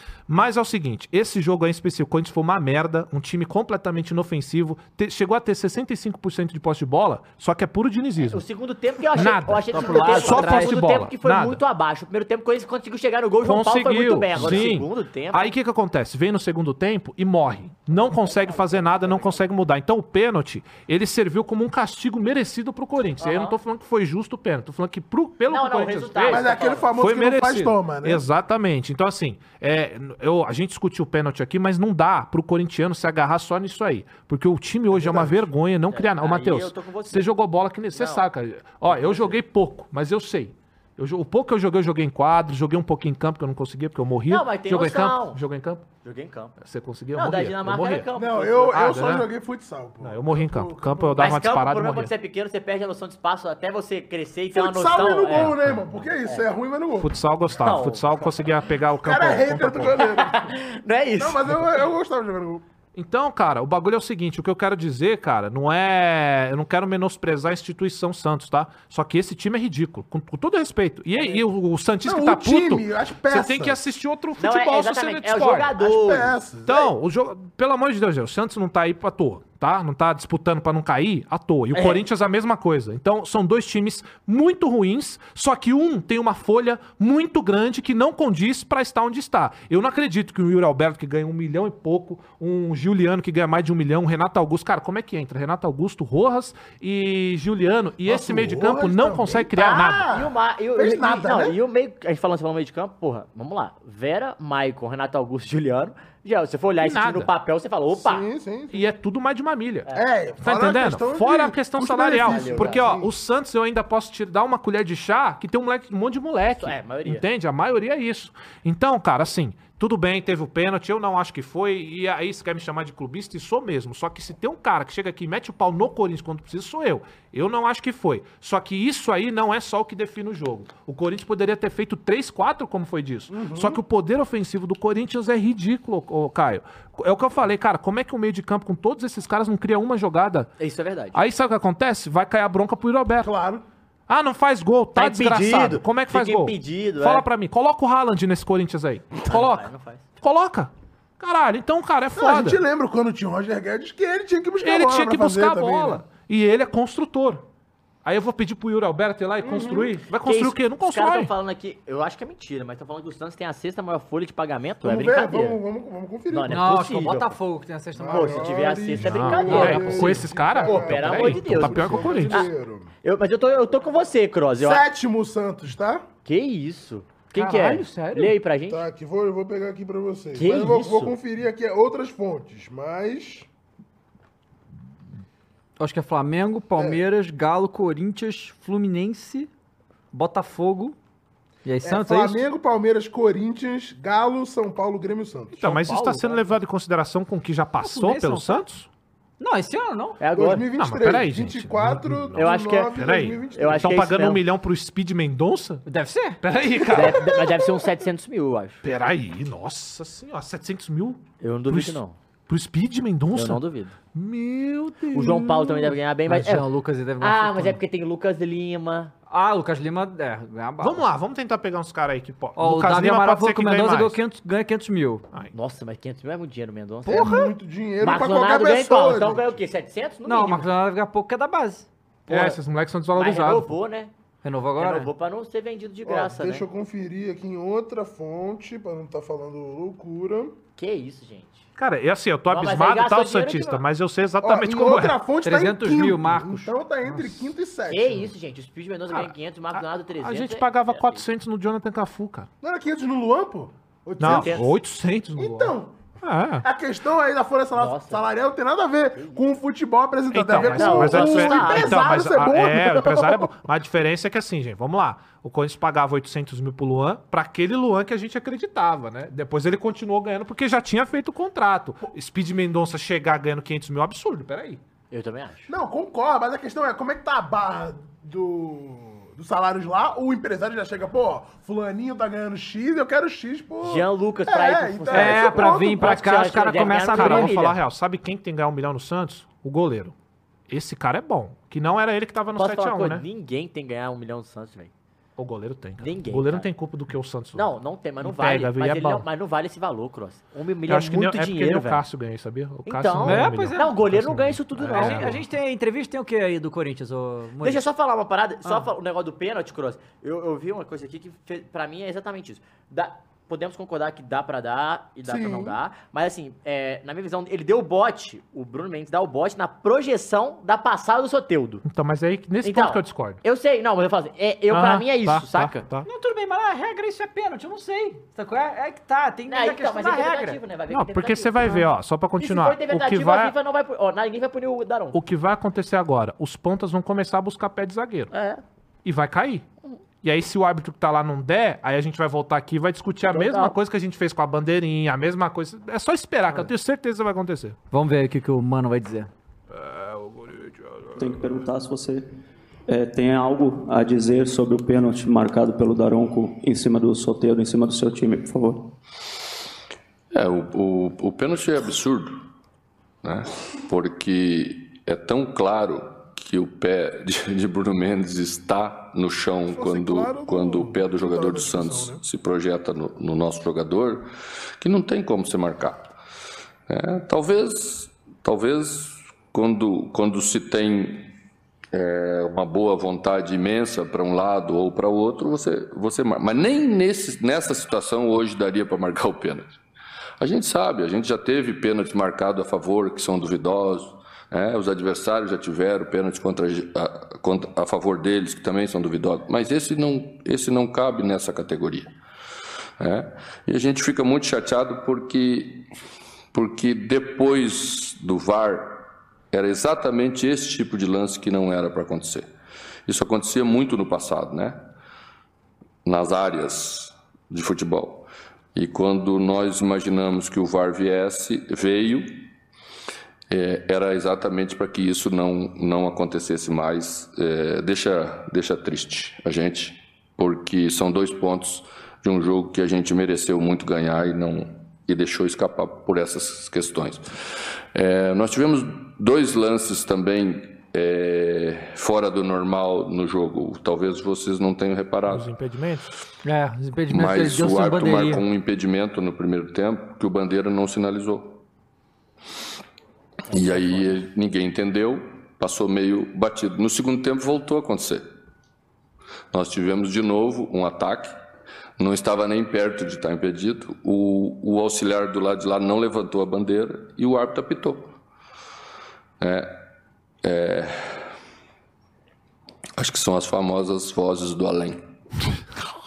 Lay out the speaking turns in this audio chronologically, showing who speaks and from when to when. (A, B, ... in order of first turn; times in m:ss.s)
0:00.3-0:08.4 A
0:08.2-0:15.5 B
0:09.1-0:11.6 A
0:09.7-0:10.8 C
0:13.4-0:45.8 A
0:18.0-0:19.4 B
0:23.2-0:23.6 B
0:25.5-0:26.9 B
0:26.3-0:28.2 D
0:34.9-0:35.5 D
0:35.9-0:37.3 B
0:37.9-0:38.2 B
0:38.8-0:39.4 B
0:44.3-0:45.4 B
0:46.0-0:46.6 B
0:46.6-0:48.1 A
0:47.1-0:48.9 B
0:48.2-0:51.3 D
0:48.7-0:49.3 A
0:50.0-0:52.1 A
0:51.2-0:55.6 B
0:54.5-0:57.1 D
0:55.3-0:55.8 A
0:57.0-1:00.0 A
0:57.6-0:58.4 B
0:59.0-1:00.4 D
1:00.0-1:01.7 B
1:01.2-1:02.6 D
1:03.0-1:15.7 A
1:12.0-1:13.8 D
1:14.4-1:16.3 B
1:15.8-1:16.9 D
1:16.7-1:40.1 A
1:21.7-1:22.0 B
1:38.0-1:41.6 D
1:39.6-1:48.3 B
1:46.8-1:47.3 A
1:47.9-1:48.9 D
1:48.7-1:49.9 A
1:49.9-1:53.1 D
1:50.4-2:20.5 A
1:52.2-1:52.9 B
1:56.6-1:57.2 B
2:13.3-2:13.8 D
2:20.6-2:21.2 B
2:21.2-2:23.3 A
2:23.2-2:23.6 D
2:24.1-2:29.7 A
2:25.0-2:27.3 B
2:29.3-2:30.0 B
2:30.2-2:32.6 A
2:32.2-2:36.0 D
2:34.6-2:37.4 A
2:38.0-2:41.3 A
2:39.4-2:40.0 D
2:40.2-2:45.6 B
2:44.8-2:46.6 D
2:46.3-2:47.4 B
2:46.5-2:48.6 C
2:48.0-2:52.9 D
2:48.1-2:52.5 B
2:49.0-2:52.4 A
2:49.4-2:50.2 C
2:53.0-2:54.8 B
2:54.6-2:56.1 D
2:56.3-2:58.8 B
2:57.4-2:58.4 C
2:58.7-3:03.5 D
3:00.4-3:01.2 B
3:05.8-3:09.5 C
3:06.8-3:07.0 D
3:10.1-3:11.0 C
3:11.6-3:12.4 C
3:11.8-3:16.4 D
3:15.6-3:18.9 A
3:17.8-3:18.6 C
3:19.4-3:20.2 C
3:20.2-3:20.7 B
3:20.3-3:24.1 D
3:20.8-3:25.8 A
3:22.4-3:24.4 B
3:25.9-3:26.4 C
3:26.4-3:27.4 A
3:26.9-3:28.8 B
3:28.8-3:33.6 A
3:31.4-3:32.2 B
3:33.3-3:34.0 B
3:34.1-3:36.0 A
3:35.1-3:36.7 B
3:36.3-3:37.8 C
3:37.2-3:39.1 B
3:39.3-3:41.0 C
3:40.8-3:44.2 A
3:42.6-3:45.2 C
3:45.5-3:47.4 B
3:47.1-3:47.5 C
3:47.1-3:49.6 D
3:48.0-3:50.7 B
3:50.2-3:51.9 C
3:52.3-3:52.6 B
3:52.3-3:53.7 A
3:53.2-3:54.1 B
3:54.4-3:55.1 C
3:54.8-3:56.7 B
3:56.0-4:00.6 D
4:00.8-4:01.6 B
4:01.8-4:05.2 A
4:02.5-4:03.8 B
4:04.4-4:08.3 D
4:05.4-4:06.7 C
4:07.9-4:11.2 B
4:09.1-4:12.5 A
4:12.6-4:14.7 D
4:14.2-4:16.7 A
4:14.2-4:14.7 B
4:15.4-4:16.0 D
4:16.6-4:23.5 D
4:17.8-4:18.2 B
4:20.3-4:34.8 A
4:20.6-4:22.2 B
4:35.1-4:35.7 B
4:35.7-4:46.2 D
4:43.8-4:47.8 B
4:45.1-4:47.5 C
4:46.8-4:50.2 A
4:50.7-4:53.2 A
4:52.6-4:54.9 B
4:55.4-4:57.7 A
4:56.0-4:56.7 B
4:57.6-5:02.0 B
4:58.2-4:59.2 A
5:00.9-5:05.4 A
5:02.9-5:05.4 B
5:03.2-5:03.9 C
5:04.9-5:07.9 C
5:07.6-5:21.8 B
5:15.2-5:15.8 D
5:21.8-5:23.4 A
5:22.6-5:25.8 B
5:24.7-5:26.1 A
5:26.0-5:30.6 C
5:29.5-5:31.9 B
5:30.9-5:33.5 A
5:32.4-5:35.2 B
5:35.1-5:38.3 A
5:38.3-5:38.6 B
5:39.0-5:39.6 A
5:40.2-5:47.8 A
5:43.3-5:43.7 B
5:47.9-5:49.3 C
5:49.7-5:51.4 A
5:51.2-5:52.2 E
5:52.9-5:59.0 E
6:00.3-6:02.4 F
6:03.2-6:14.3 F
6:09.7-6:12.2 D
6:14.8-6:16.1 F
6:16.9-6:21.3 F
6:21.9-6:29.8 F
6:30.4-6:42.2 F
6:43.0-6:45.9 F
6:46.5-6:52.5 F
6:53.1-6:54.9 F
6:56.0-7:02.5 F
7:03.5-7:17.4 F
7:17.9-7:25.5 F
7:25.3-7:26.1 A
7:26.4-7:28.4 C
7:27.1-7:31.6 F
7:33.5-7:34.2 B
7:33.5-7:38.3 F
7:39.5-7:41.4 F
7:42.0-7:48.2 F
7:49.4-7:49.8 F
7:50.4-7:51.3 F
7:53.0-7:55.1 F